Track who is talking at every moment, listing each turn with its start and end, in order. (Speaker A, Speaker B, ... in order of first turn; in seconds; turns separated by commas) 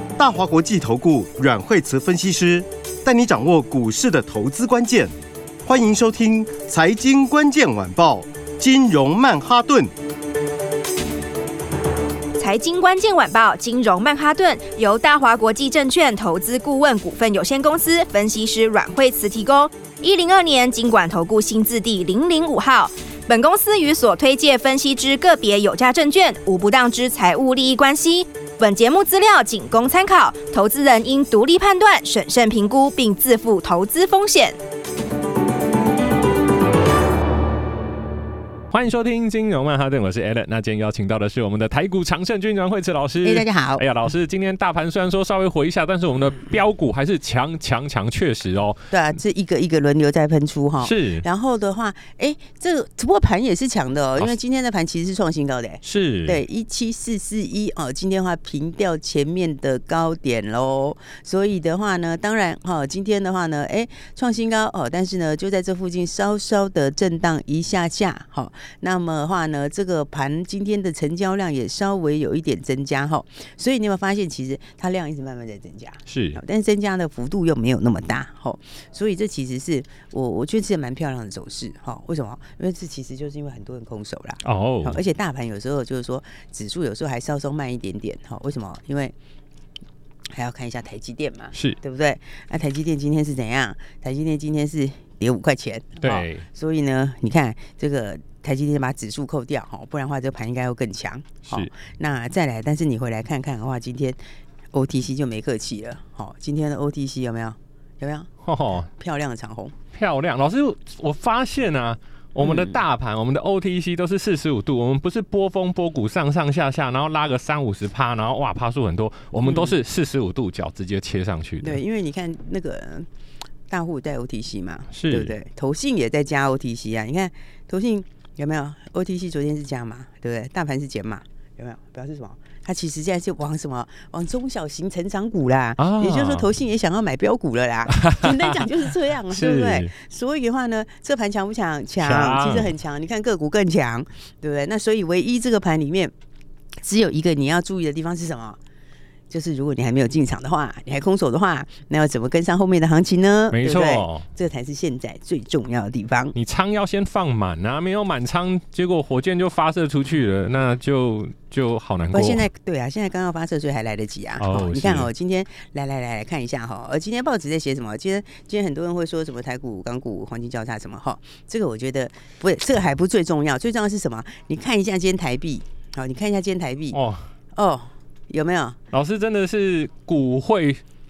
Speaker A: 0.2-5.1, Speaker A: 5.6-9.9, Speaker B: 12.4-34.6, Speaker C: 38.7-48.9, Speaker D: 43.2-43.9, Speaker D: 48.9-89.1, Speaker C: 50.8-51.2, Speaker C: 55.8-56.4, Speaker C: 76.1-76.4, Speaker C: 84.4-85.0, Speaker D: 90.3-104.2, Speaker C: 91.5-91.8, Speaker C: 96.0-96.4, Speaker D: 104.7-108.3, Speaker C: 108.4-108.9, Speaker D: 108.8-109.7, Speaker C: 109.9-121.8, Speaker D: 112.4-112.7, Speaker D: 119.5-119.7, Speaker D: 121.6-123.1, Speaker D: 123.7-146.1, Speaker C: 124.9-125.3, Speaker C: 135.8-136.5, Speaker C: 137.9-138.7, Speaker C: 139.3-139.9, Speaker C: 142.0-142.7, Speaker D: 146.8-148.6, Speaker D: 149.3-156.3, Speaker C: 153.5-154.3, Speaker C: 156.3-162.4, Speaker D: 162.1-177.0, Speaker C: 164.4-165.1, Speaker C: 176.9-177.2, Speaker D: 177.5-178.8, Speaker C: 178.9-180.8